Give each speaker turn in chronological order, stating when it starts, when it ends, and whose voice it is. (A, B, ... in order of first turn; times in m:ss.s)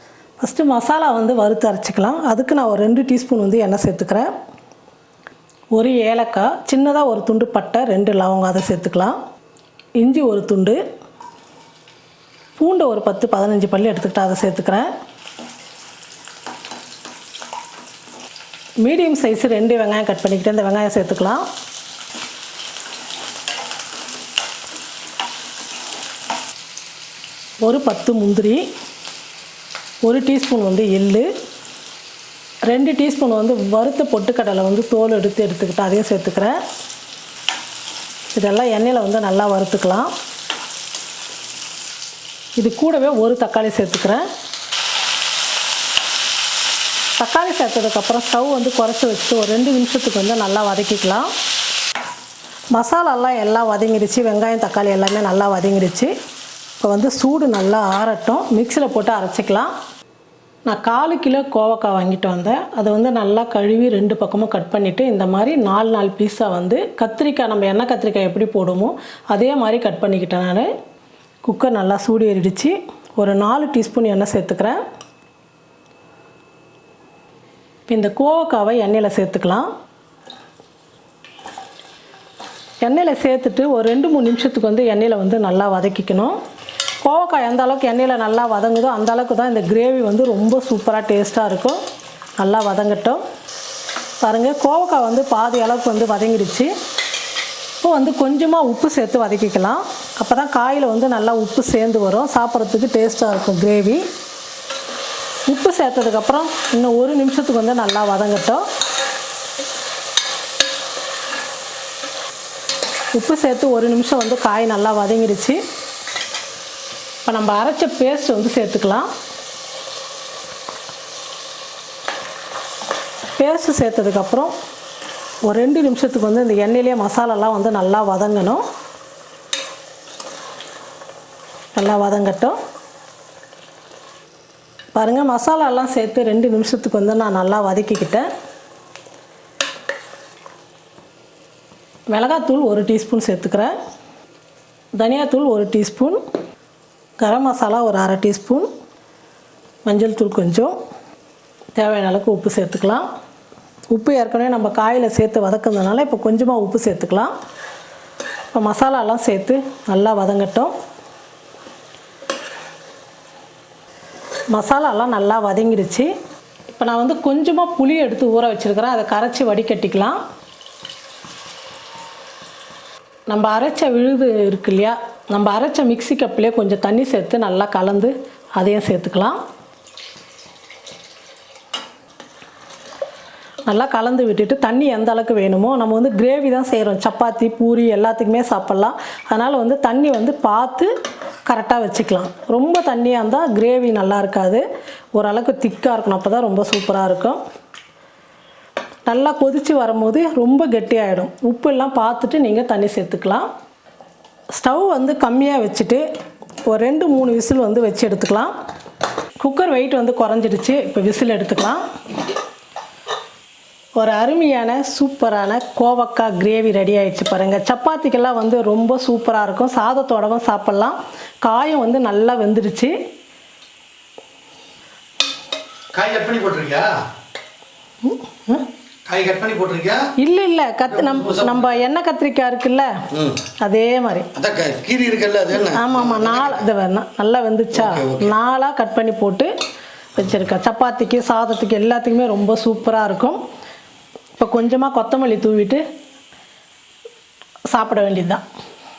0:00.4-0:04.3 A
0:05.8-0:09.2 A
0:10.0-0:10.8 A
0:12.6-0:14.9 A
0:18.8-0:21.5 A
0:27.6-0:28.6 A
0:30.0-0:31.3 A
0:32.7-0:36.6 A
0:38.3-0:40.1 A
0:42.6-0:44.2 A
0:47.2-0:51.3 A
0:52.7-0:56.1 A
0:56.8-0:59.7 A
1:00.6-1:10.7 A
1:11.4-1:14.8 A
1:17.9-1:19.7 A
1:22.8-1:26.4 A
1:27.0-1:31.8 A
1:32.4-1:33.2 A
1:34.2-1:36.7 A
1:37.8-1:44.0 A
1:45.5-1:48.6 A
1:53.1-1:55.6 A
1:57.2-1:59.1 A
2:03.4-2:04.5 A
2:05.4-2:08.6 A
2:11.7-2:12.6 A
2:15.0-2:18.3 A
2:22.1-2:23.7 A
2:25.0-2:26.2 A
2:27.2-2:28.7 A
2:29.8-2:30.7 A
2:31.8-2:33.0 A
2:33.9-2:37.3 A
2:38.5-2:40.7 A
2:44.5-2:46.1 A
2:46.7-2:50.2 A
2:53.3-2:59.4 A
3:03.7-3:10.9 A
3:11.4-3:14.6 A
3:15.2-3:17.4 A
3:19.1-3:23.5 A
3:24.6-3:26.0 A
3:26.6-3:28.5 A
3:29.4-3:31.8 A
3:34.0-3:42.9 A
3:45.9-3:46.9 B
3:48.0-3:48.7 A
3:49.0-3:50.1 B
3:50.2-3:53.0 A
3:50.9-3:51.6 B
3:53.6-3:54.3 A
3:54.3-3:56.6 B
3:55.6-3:59.5 A
3:57.7-3:58.3 B
4:00.2-4:03.4 A
4:04.4-4:05.8 A
4:07.7-4:08.4 A